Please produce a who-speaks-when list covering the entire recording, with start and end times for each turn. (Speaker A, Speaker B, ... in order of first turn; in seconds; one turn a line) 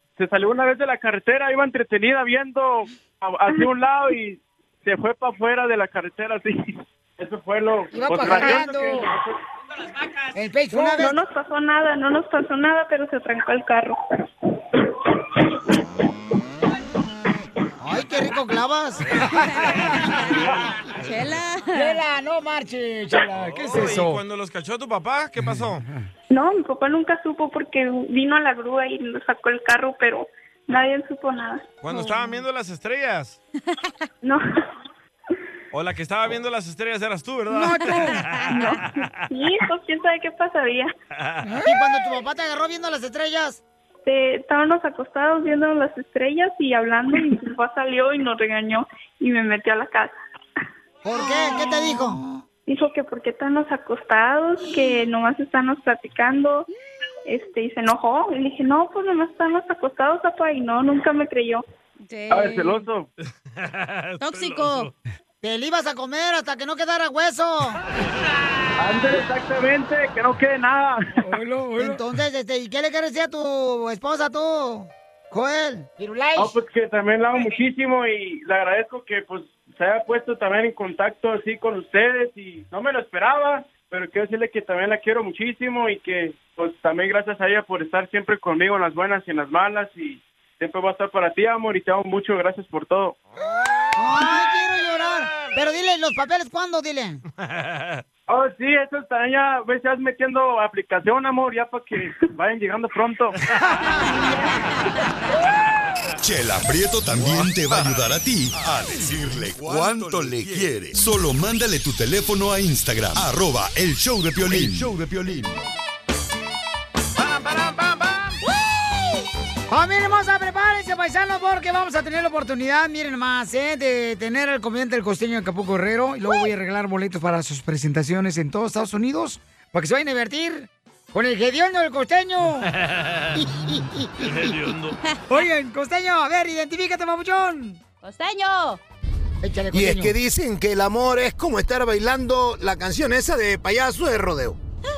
Speaker A: 0.2-9.4
Speaker B: 7.9-9.1
Speaker B: 10.3-11.2
Speaker C: 10.8-14.0
Speaker B: 17.8-20.0
Speaker D: 19.2-20.1
Speaker E: 19.3-22.0
Speaker D: 21.0-21.4
Speaker B: 21.7-24.2
Speaker D: 23.3-25.8
Speaker C: 26.3-31.7
Speaker D: 31.8-33.4
Speaker E: 31.9-32.4
Speaker D: 35.7-39.2
Speaker B: 37.5-38.2
Speaker C: 39.3-40.9
Speaker D: 41.2-41.6
Speaker B: 41.6-43.6
Speaker C: 44.0-50.1
Speaker B: 51.0-52.3
Speaker C: 52.7-56.7
Speaker C: 57.3-61.6
Speaker E: 62.0-62.8
Speaker A: 62.3-63.1
Speaker D: 63.6-64.9
Speaker E: 64.2-64.9
Speaker B: 65.4-67.8
Speaker A: 68.8-71.4
Speaker B: 71.8-76.6
Speaker A: 76.3-93.2
Speaker B: 94.0-97.2
Speaker D: 97.4-98.0
Speaker A: 98.3-103.4
Speaker E: 104.0-104.3
Speaker F: 106.2-115.7
Speaker D: 107.7-108.0
Speaker D: 117.2-118.4
Speaker B: 119.7-132.7
Speaker D: 132.8-133.5
Speaker B: 133.4-134.3
Speaker D: 134.2-135.0
Speaker B: 135.3-137.8
Speaker E: 138.0-138.8
Speaker B: 139.4-140.1
Speaker G: 139.7-144.6